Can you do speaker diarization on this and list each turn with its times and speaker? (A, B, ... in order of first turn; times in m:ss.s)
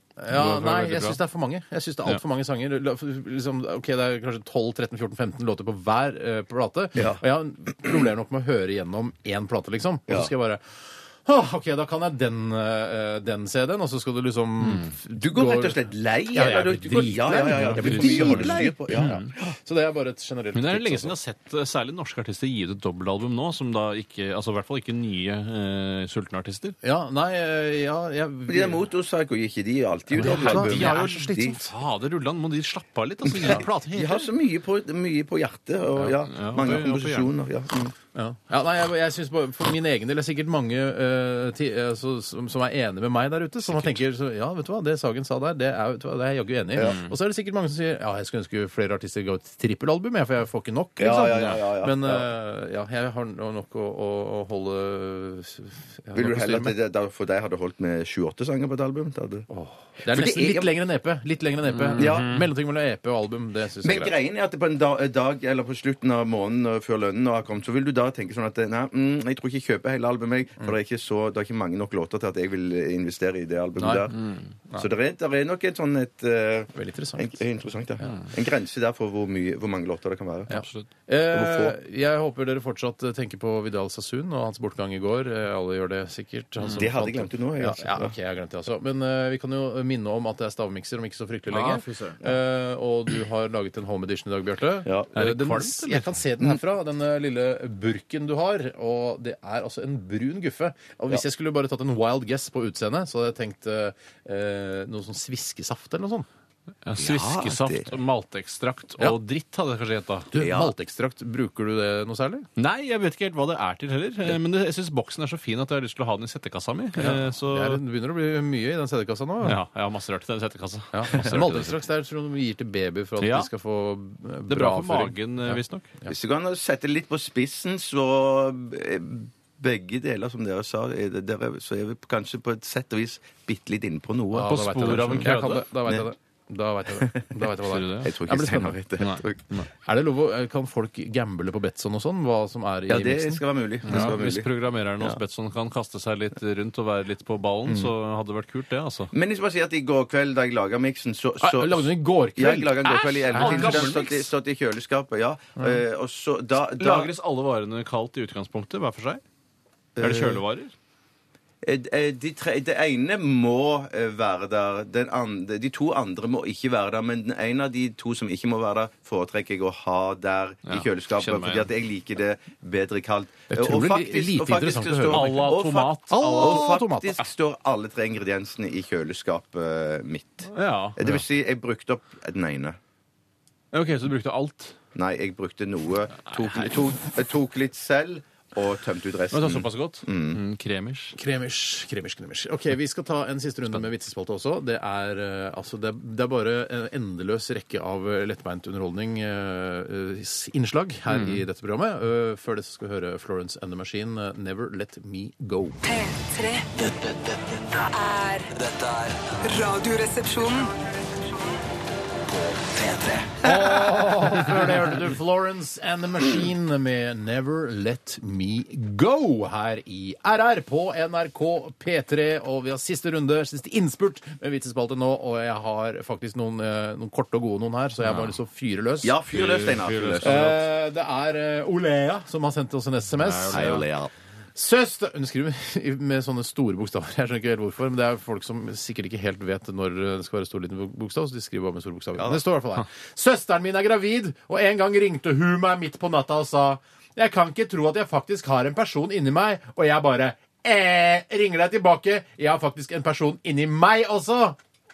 0:00.2-0:10.6 A
0:00.3-0:01.2 B
0:07.0-0:07.2 C
0:11.2-0:21.2 A
0:14.6-0:14.9 B
0:15.2-0:19.5 C
0:17.6-0:19.3 B
0:20.6-0:26.8 B
0:26.8-0:28.8 A
0:28.5-0:31.6 C
0:30.1-0:31.7 A
0:30.2-0:34.3 B
0:33.3-0:37.9 C
0:36.2-0:37.3 B
0:38.2-0:56.8 A
0:43.7-0:44.0 B
0:46.8-0:47.1 B
0:51.0-0:52.3 C
0:56.1-0:59.5 C
0:59.5-1:04.1 A
1:00.0-1:00.7 C
1:01.7-1:02.5 B
1:02.0-1:02.4 C
1:03.8-1:14.2 C
1:13.8-1:14.1 A
1:14.1-1:14.5 B
1:14.7-1:20.6 C
1:16.8-1:17.4 A
1:20.5-1:20.9 B
1:20.5-1:46.3 A
1:21.3-1:21.8 C
1:26.8-1:28.2 C
1:31.5-1:32.2 B
1:34.8-1:35.1 C
1:35.2-1:36.2 B
1:46.8-1:50.3 B
1:47.0-1:47.9 C
1:50.3-1:52.5 A
1:50.4-1:50.7 C
1:52.6-1:57.8 B
1:57.0-1:59.6 A
1:59.4-2:01.8 B
2:00.9-2:06.1 A
2:03.2-2:03.5 B
2:04.5-2:05.9 B
2:06.1-2:15.3 C
2:14.3-2:18.8 A
2:14.4-2:15.7 B
2:16.9-2:17.4 C
2:17.7-2:18.1 B
2:18.0-2:19.4 C
2:19.0-2:19.7 B
2:19.8-2:24.1 A
2:22.9-2:24.5 C
2:23.9-2:29.1 B
2:29.1-2:37.1 C
2:31.4-2:33.9 A
2:32.8-2:34.3 B
2:36.8-2:39.2 B
2:40.0-2:40.4 C
2:40.0-2:40.7 B
2:41.6-3:02.8 C
2:50.7-2:51.7 B
2:53.5-2:55.4 A
2:55.1-2:56.7 B
2:56.1-2:57.2 A
3:00.5-3:01.1 B
3:03.7-3:04.8 B
3:05.0-3:10.4 C
3:06.3-3:06.7 B
3:09.3-3:11.2 B
3:11.2-3:25.8 A
3:21.1-3:21.4 B
3:25.8-3:26.7 D
3:26.8-3:29.4 E
3:28.0-3:28.5 D
3:29.4-3:30.7 D
3:32.2-3:33.5 E
3:33.4-3:49.2 A
3:48.0-3:48.4 B
3:49.0-3:50.5 C
3:49.3-3:50.6 B
3:50.2-3:53.8 A
3:53.2-3:53.8 B
3:53.5-3:54.1 C
3:54.6-4:14.6 A